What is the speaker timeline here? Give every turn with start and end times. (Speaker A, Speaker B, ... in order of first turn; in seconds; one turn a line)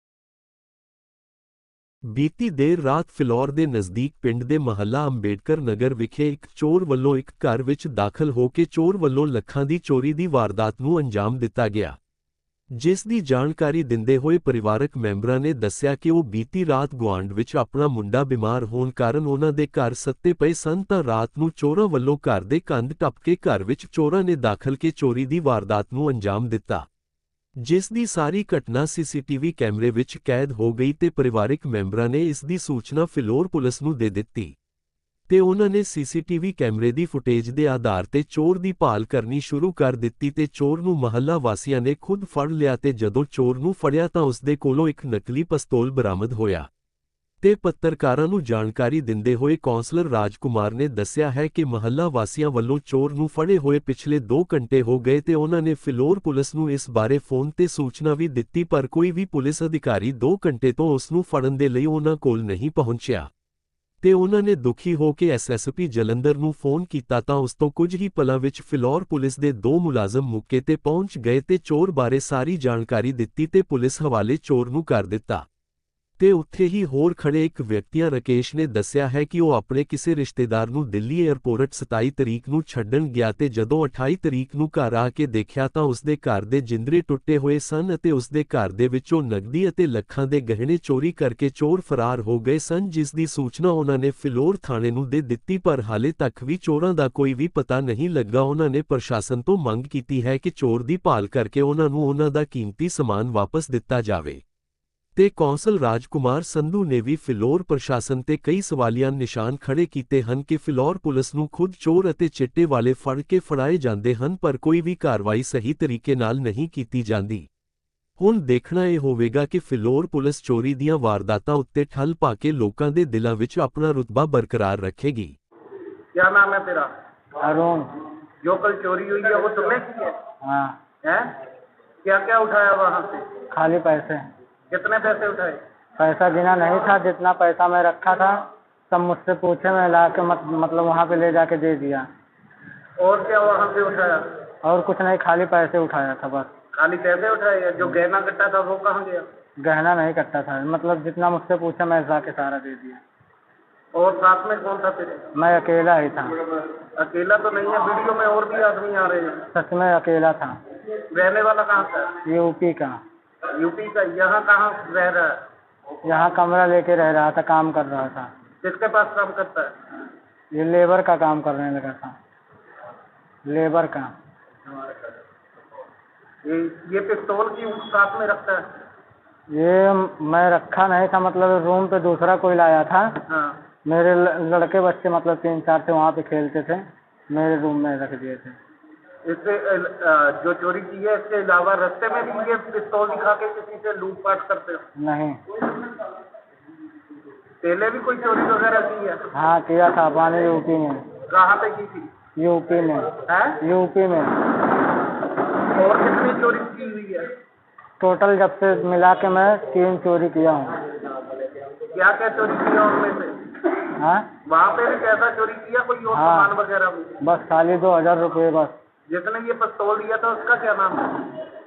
Speaker A: 2.1-12.0
Speaker A: 12.7-26.9
Speaker A: 27.6-34.5
Speaker A: 35.3-46.7
Speaker A: 47.4-63.3
Speaker A: 64.0-75.4
Speaker A: 76.2-104.4
Speaker A: 105.2-117.5
Speaker A: 118.2-125.3
Speaker B: 126.1-126.9
Speaker C: 127.4-127.9
Speaker B: 128.4-130.2
Speaker C: 130.4-130.7
Speaker B: 132.0-133.2
Speaker C: 133.5-134.2
Speaker B: 134.7-135.6
Speaker C: 136.0-142.1
Speaker B: 143.0-144.2
Speaker C: 144.6-146.5
Speaker B: 146.7-149.3
Speaker C: 149.6-153.0
Speaker B: 153.9-155.2
Speaker C: 155.3-156.3
Speaker B: 157.0-159.4
Speaker C: 159.5-160.5
Speaker B: 161.1-162.1
Speaker C: 162.2-163.0
Speaker B: 163.5-165.4
Speaker C: 166.0-168.3
Speaker B: 168.6-169.7
Speaker C: 170.5-172.1
Speaker C: 173.4-174.1
Speaker B: 176.4-178.6
Speaker C: 179.5-183.1
Speaker B: 183.3-183.6
Speaker C: 183.8-188.6
Speaker B: 189.2-194.8
Speaker C: 194.9-195.4
Speaker B: 197.6-199.2
Speaker C: 199.3-201.0
Speaker B: 201.3-202.1
Speaker C: 202.3-204.4
Speaker B: 203.3-203.6
Speaker B: 205.7-207.3
Speaker C: 208.0-210.8
Speaker B: 211.9-213.4
Speaker C: 214.0-214.3
Speaker B: 214.4-217.1
Speaker C: 216.1-216.5
Speaker C: 217.2-218.8
Speaker B: 219.1-221.2